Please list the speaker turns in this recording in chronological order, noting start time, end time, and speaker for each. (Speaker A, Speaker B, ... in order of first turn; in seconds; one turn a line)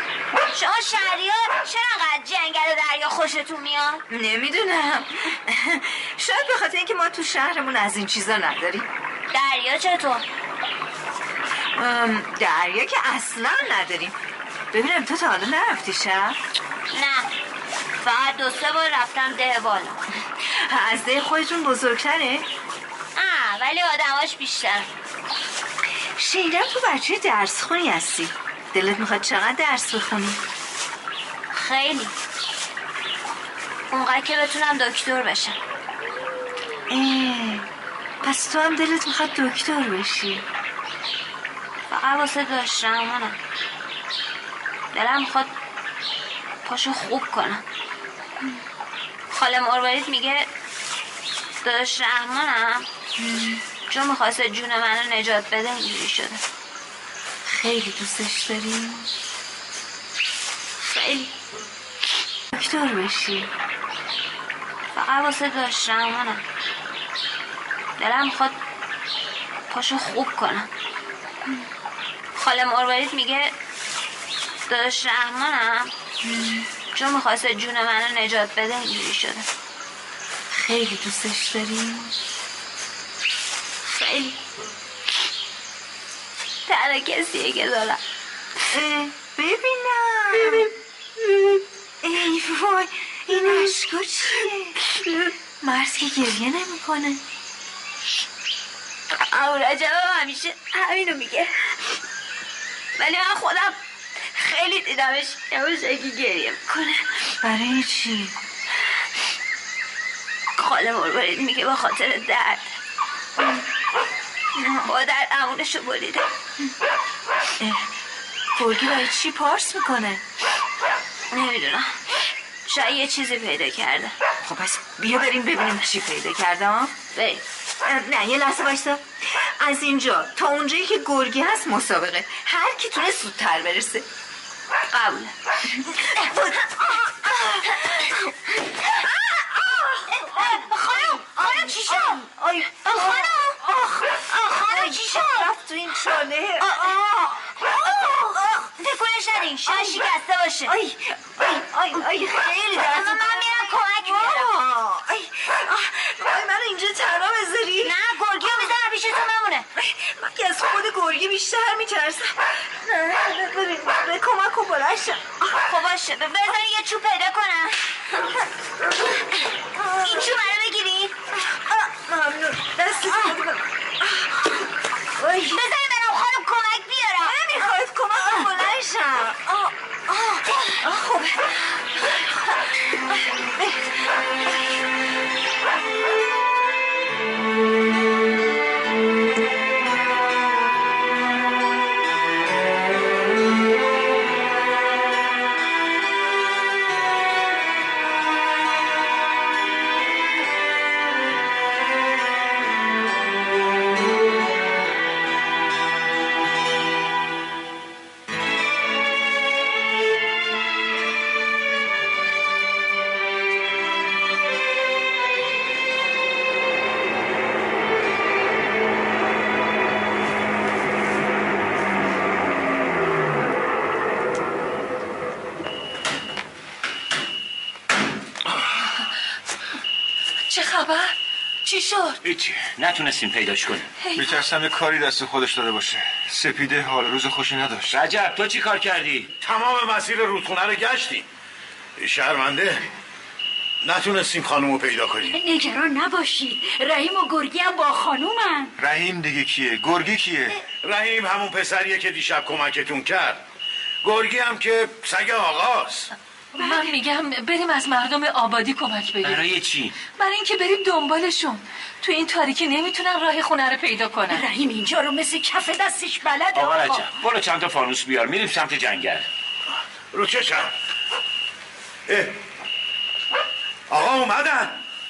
Speaker A: 0.5-4.0
Speaker B: 4.1-8.9
Speaker A: 9.3-10.2
Speaker B: 11.8-14.2
Speaker B: 14.7-16.4
Speaker A: 16.9-17.3
Speaker A: 18.0-20.0
Speaker B: 20.4-22.5
Speaker A: 23.2-24.9
Speaker B: 26.2-30.4
Speaker A: 31.5-32.1
Speaker A: 33.9-35.6
Speaker B: 36.9-37.7
Speaker B: 38.2-40.4
Speaker A: 41.9-43.4
Speaker A: 44.9-45.5
Speaker A: 46.6-47.6
Speaker A: 49.3-50.5
Speaker A: 51.6-52.9
Speaker B: 53.2-53.6
Speaker A: 53.9-56.4
Speaker B: 57.5-59.1
Speaker A: 60.8-61.3
Speaker B: 62.5-63.5
Speaker A: 65.0-66.4
Speaker A: 68.0-68.5
Speaker A: 69.7-70.7
Speaker A: 72.4-73.5
Speaker A: 74.7-75.9
Speaker B: 76.2-76.7
Speaker A: 76.9-79.5
Speaker B: 80.5-82.1
Speaker A: 83.9-84.4
Speaker A: 86.7-88.0
Speaker B: 88.7-90.7
Speaker A: 90.3-90.7
Speaker A: 91.2-91.6
Speaker B: 92.0-94.8
Speaker B: 95.6-97.2
Speaker A: 99.1-101.5
Speaker A: 103.0-103.8
Speaker A: 104.3-107.2
Speaker B: 107.4-108.3
Speaker A: 110.6-112.7
Speaker B: 114.6-114.9
Speaker A: 114.9-116.3
Speaker B: 117.6-117.9
Speaker B: 118.6-120.2
Speaker A: 121.3-122.0
Speaker A: 122.7-124.1
Speaker B: 124.4-126.9
Speaker A: 127.1-127.4
Speaker B: 127.8-134.1
Speaker A: 134.9-135.3
Speaker B: 136.0-137.9
Speaker B: 139.2-146.9
Speaker A: 140.2-143.6
Speaker A: 144.3-145.5
Speaker A: 146.6-150.7
Speaker B: 147.6-148.4
Speaker B: 149.7-150.0
Speaker B: 150.7-157.9
Speaker A: 152.7-154.5
Speaker A: 157.8-159.7
Speaker B: 159.8-165.5
Speaker A: 165.6-167.8
Speaker A: 169.9-171.2
Speaker B: 170.0-170.3
Speaker B: 171.4-174.5
Speaker B: 175.2-175.6
Speaker A: 175.4-177.4
Speaker B: 177.2-184.8
Speaker C: 230.5-232.2
Speaker D: 232.2-233.9
Speaker C: 234.0-234.3
Speaker E: 234.2-238.0
Speaker D: 237.9-239.3
Speaker F: 239.4-241.3
Speaker F: 242.0-242.9
Speaker F: 243.8-245.4
Speaker G: 245.3-248.8
Speaker E: 248.8-250.6
Speaker F: 250.8-253.4
Speaker F: 254.0-256.1
Speaker G: 256.6-256.9
Speaker C: 256.6-259.5
Speaker D: 259.2-259.9
Speaker C: 260.2-264.4
Speaker G: 264.3-267.1
Speaker D: 266.6-269.3
Speaker F: 270.1-270.7
Speaker F: 272.1-272.4
Speaker F: 273.9-274.8